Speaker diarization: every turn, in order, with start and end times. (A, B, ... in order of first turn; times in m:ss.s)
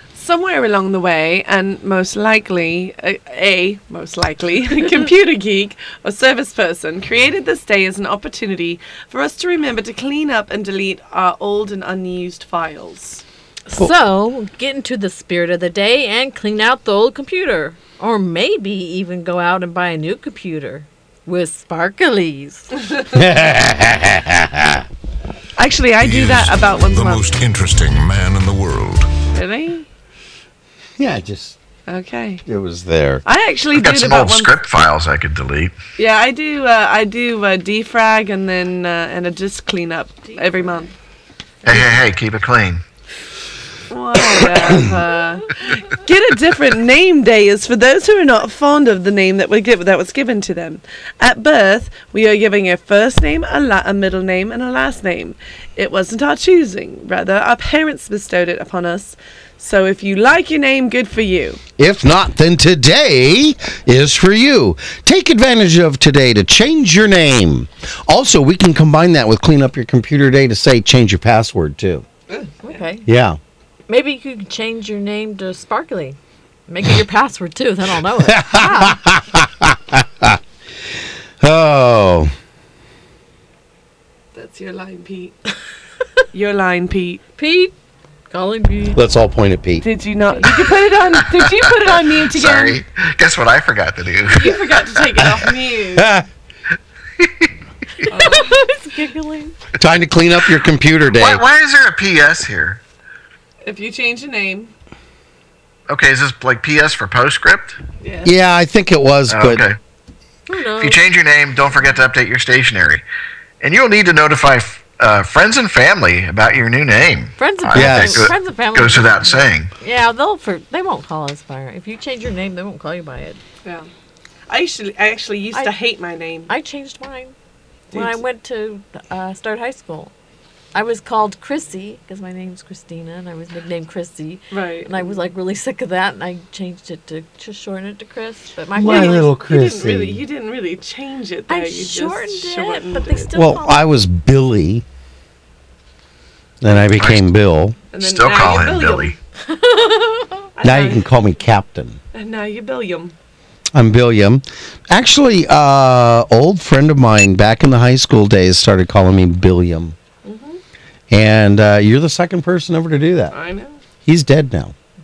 0:00.1-0:13.2 A
0:13.7-0:22.7 B
0:23.1-0:24.8 C
0:25.6-0:27.4 A
0:26.0-0:29.1 D
0:29.3-0:29.8 A
0:31.0-0:31.6 C
0:31.9-0:32.4 A
0:32.4-0:33.2 C
0:33.2-0:34.5 A
0:33.7-0:35.7 E
0:36.0-0:40.9 A
0:40.3-0:40.7 B
0:41.6-0:42.0 A
0:41.6-0:42.8 E
0:43.9-1:01.6 A
1:01.8-1:12.0 C
1:12.3-1:12.8 A
1:12.6-1:13.0 B
1:13.0-1:13.4 C
1:13.9-1:16.2 B
1:16.7-1:19.0 B
1:18.2-1:20.4 C
1:21.4-1:22.3 C
1:24.3-1:25.4 A
1:26.3-1:27.2 A
1:27.4-1:27.7 B
1:28.3-1:29.0 B
1:28.9-1:29.8 C
1:29.8-1:32.8 A
1:30.3-1:30.6 B
1:32.2-1:34.6 E
1:34.3-1:36.1 A
1:35.2-1:36.2 C
1:37.2-1:37.5 E
1:38.1-1:38.6 A
1:38.1-1:39.6 B
1:39.8-1:41.4 C
1:41.1-1:42.8 E
1:43.6-1:44.7 A
1:45.9-1:47.8 E
1:48.0-1:48.3 A
1:48.2-1:49.6 C
1:49.3-1:49.8 E
1:50.5-1:51.0 B
1:50.8-1:53.0 E
1:53.6-1:59.7 E
1:57.4-2:03.4 B
1:57.7-1:58.3 C
2:04.5-2:06.5 A
2:06.5-2:07.3 B
2:07.9-2:08.2 A
2:07.9-2:10.1 B
2:10.7-2:19.3 B
2:14.5-2:15.2 A
2:18.8-2:20.2 C
2:18.8-2:23.3 A
2:21.5-2:23.9 B
2:23.3-2:24.8 C
2:26.6-2:27.8 C
2:27.0-2:27.3 E
2:27.9-2:29.1 A
2:28.0-2:29.2 E
2:29.4-2:30.5 B
2:30.6-2:31.0 A
2:30.6-2:32.0 C
2:32.1-2:33.1 A
2:33.7-2:40.0 C
2:40.2-2:40.6 A
2:41.1-2:43.3 C
2:43.3-2:43.8 A
2:44.0-2:44.7 C